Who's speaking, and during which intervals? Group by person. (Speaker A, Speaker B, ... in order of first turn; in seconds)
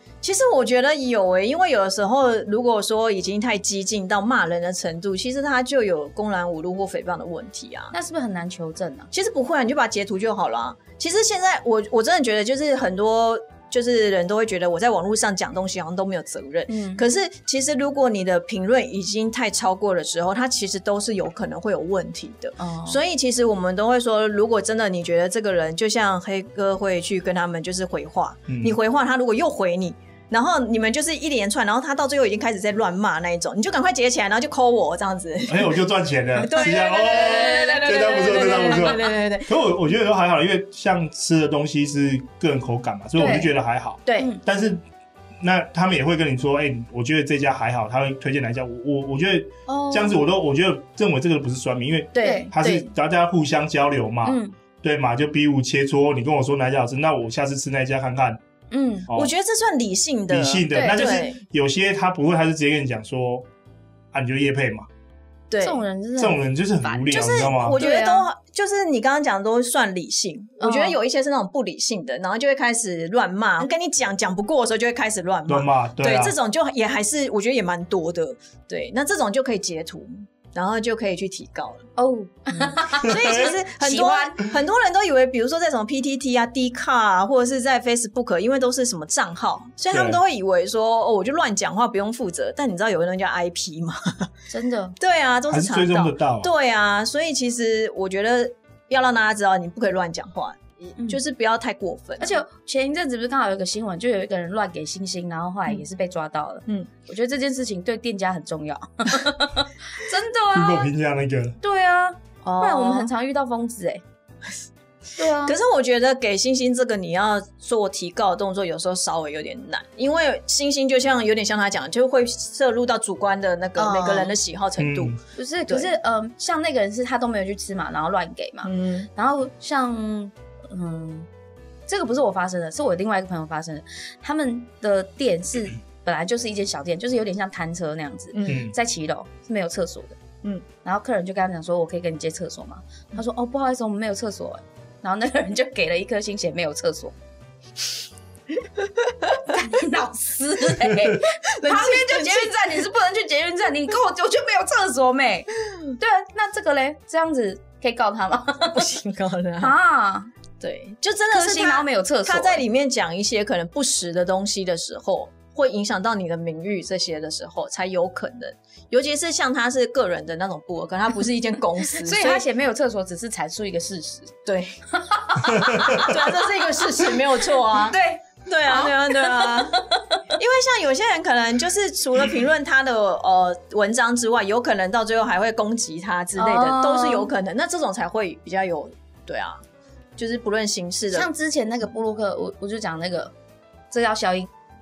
Speaker A: 0.2-7.9, 9.1-35.8, 36.4-39.5, 44.0-44.3, 52.1-52.9, 59.1-61.4, 65.5-65.8, 67.1-81.9, 82.6-94.3, 95.0-102.4, 112.4-113.1, 115.4-125.9, 128.6-129.1, 138.3-138.7, 151.5-152.5, 158.7-159.7, 160.6-172.4, 174.4-174.8, 175.8-189.6, 190.2-191.3
Speaker B: 7.9-9.1, 16.7-17.0, 22.6-23.0, 37.1-39.0, 43.2-43.5, 49.7-50.2, 52.2-52.5, 54.2-54.5, 58.7-59.1, 60.7-61.2, 65.6-68.2, 70.6-71.0, 82.0-84.4, 94.5-95.0, 102.2-110.9, 111.6-114.0, 115.2-115.5, 123.8-124.3, 125.3-131.3, 131.9-140.2, 140.8-147.1, 149.4-158.9, 159.6-160.3, 161.3-162.6, 171.9-174.3, 174.9-177.0, 177.7-180.2, 186.3-187.3, 191.1-193.3, 193.9-194.5
Speaker C: 28.5-28.8, 35.5-44.8, 45.4-58.4, 60.3-63.5, 64.1-64.9, 66.2-67.8, 75.5-76.3, 83.0-83.5, 89.9-90.2, 95.5-96.5, 110.5-111.6, 124.8-125.2, 138.5-138.7, 175.7-176.0